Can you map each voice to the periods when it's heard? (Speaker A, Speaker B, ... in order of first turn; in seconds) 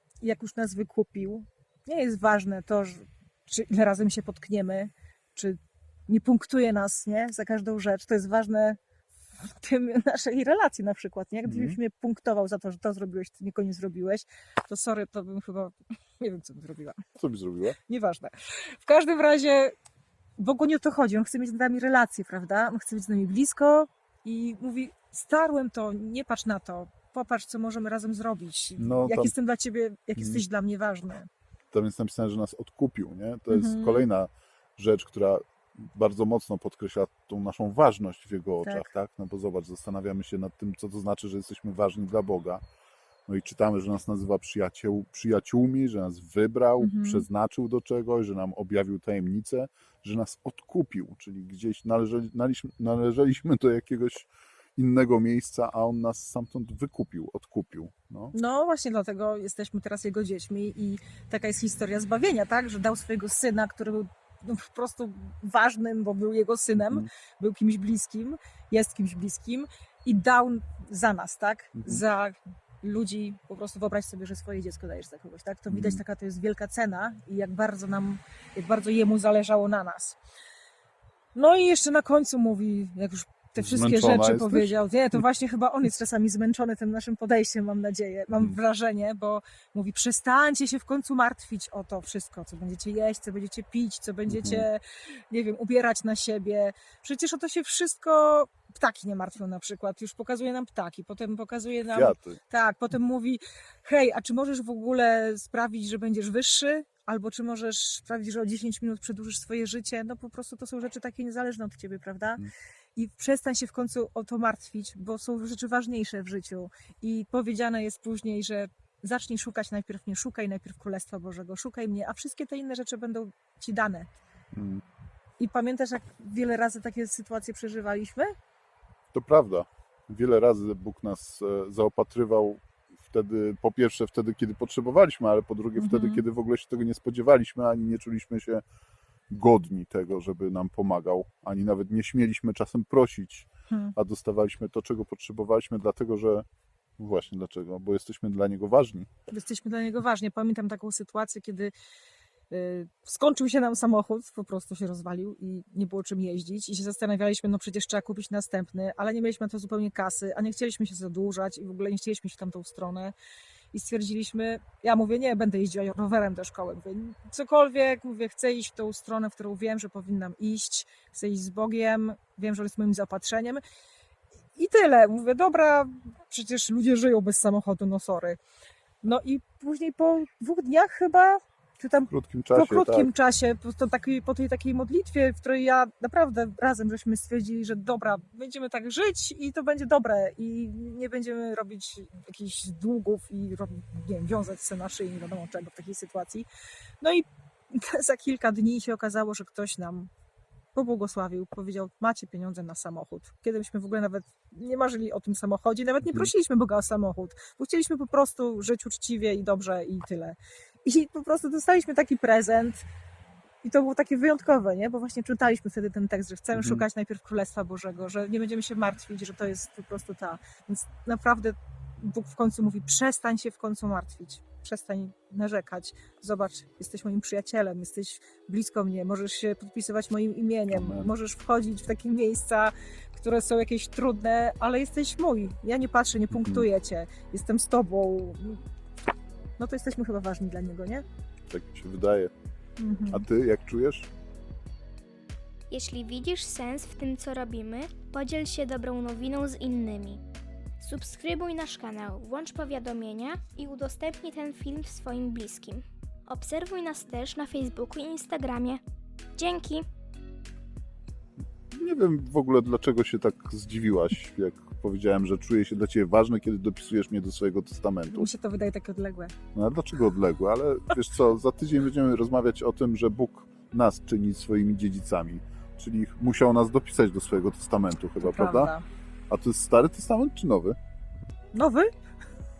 Speaker A: 0.2-8.8, 9.4-17.0, 17.8-19.7, 20.4-31.3, 33.5-34.1, 46.8-47.2, 58.3-80.2, 81.3-124.1, 125.4-128.3, 135.8-136.2, 149.3-151.7, 152.5-163.1, 163.7-173.6, 174.5-178.4, 179.0-196.5, 197.0-200.1, 200.7-212.8, 213.6-238.6, 239.6-241.0, 242.8-243.2, 268.1-269.3, 278.2-278.8, 281.5-281.9
Speaker B: 11.4-11.8, 17.2-17.8, 28.8-29.3, 30.2-30.4, 31.7-42.6, 43.3-58.3, 66.8-67.1, 71.8-72.0, 75.7-76.0, 83.6-84.8, 94.3-94.7, 101.9-102.4, 124.5-124.8, 129.1-138.6, 139.3-146.4, 147.0-149.1, 182.1-183.1, 216.5-216.8, 230.7-231.1, 236.3-236.7, 241.5-242.3, 243.1-244.1, 261.7-268.3, 269.5-278.7, 279.3-280.8
Speaker C: 245.7-250.2, 250.8-258.8, 259.4-259.8